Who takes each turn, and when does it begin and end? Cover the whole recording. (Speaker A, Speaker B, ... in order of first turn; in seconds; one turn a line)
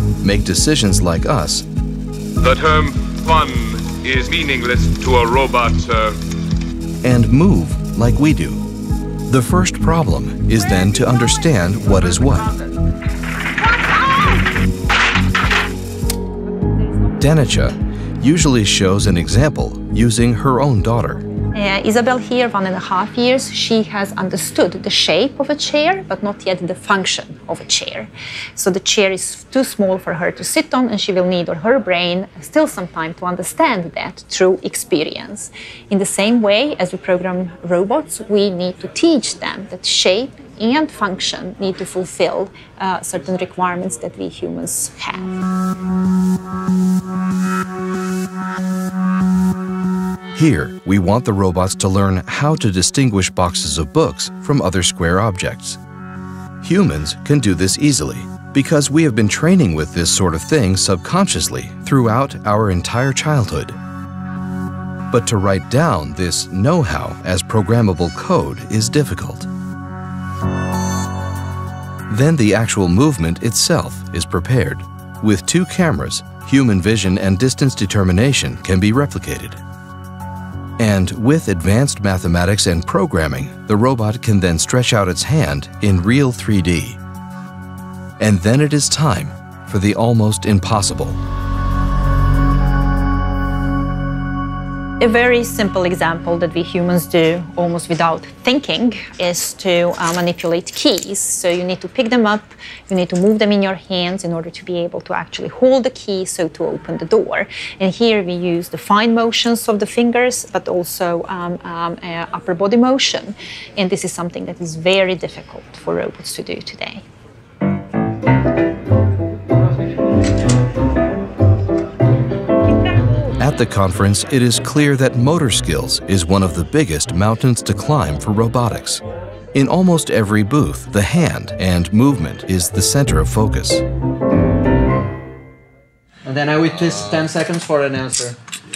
Speaker A: 0.2-1.6
Speaker B: 2.4-6.2
Speaker A: 7.0-8.7
Speaker A: 9.3-12.5
Speaker C: 13.8-14.3
Speaker A: 17.2-21.2
Speaker C: 21.5-45.4
Speaker A: 50.4-55.8
Speaker A: 56.6-63.8
Speaker A: 65.1-69.5
Speaker A: 72.1-79.6
Speaker A: 80.8-87.0
Speaker A: 88.2-91.2
Speaker C: 95.0-117.0
Speaker A: 123.4-129.0
Speaker A: 129.5-133.8
Speaker D: 136.2-138.4